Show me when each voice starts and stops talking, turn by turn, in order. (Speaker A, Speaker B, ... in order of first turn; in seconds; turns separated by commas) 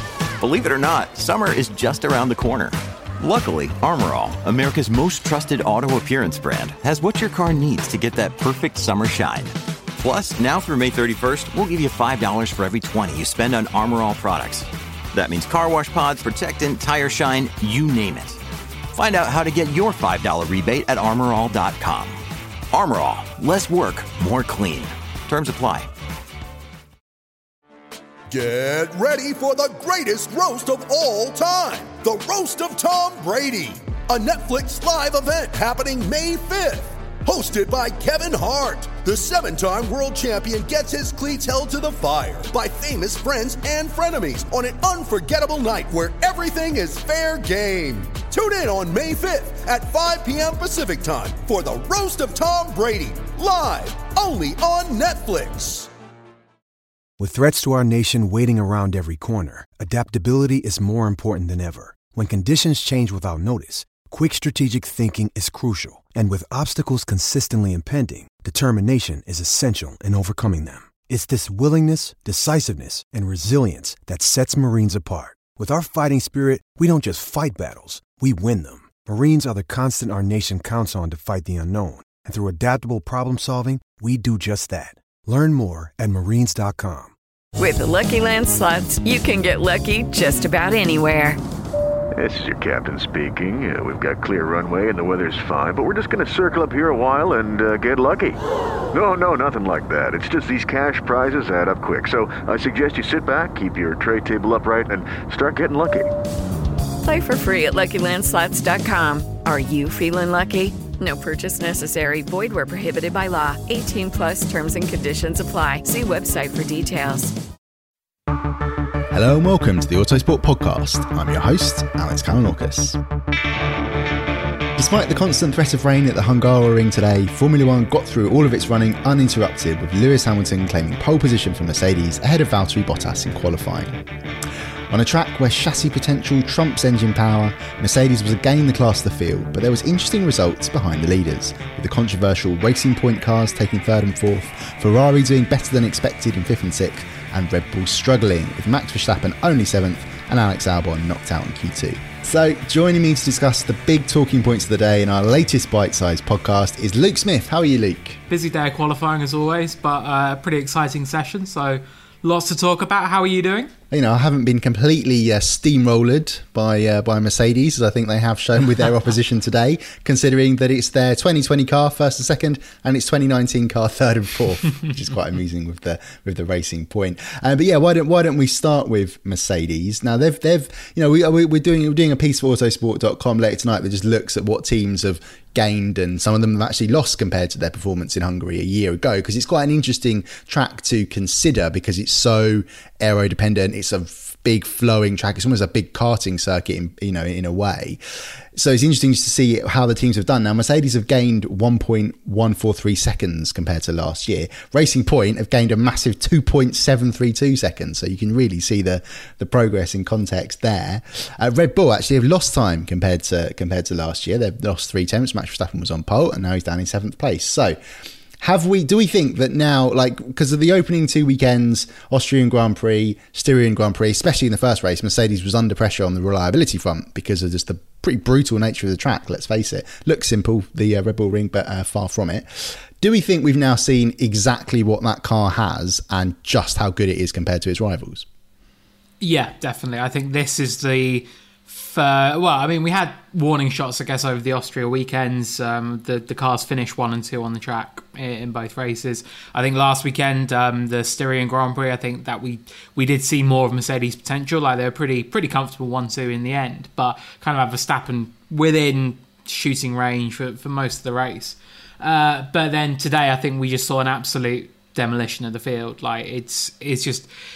Speaker A: 0.4-18.4, Speaker A: 18.9-22.2, Speaker A: 22.7-25.9, Speaker B: 28.3-55.9, Speaker C: 57.2-87.1, Speaker D: 87.6-91.4, Speaker E: 92.2-98.4, Speaker E: 98.9-106.1, Speaker D: 107.0-117.3, Speaker F: 119.1-123.0, Speaker F: 124.8-134.0, Speaker F: 134.9-158.2, Speaker G: 158.3-163.7, Speaker F: 163.9-198.0, Speaker F: 198.6-217.8, Speaker F: 218.4-238.3, Speaker G: 239.2-267.3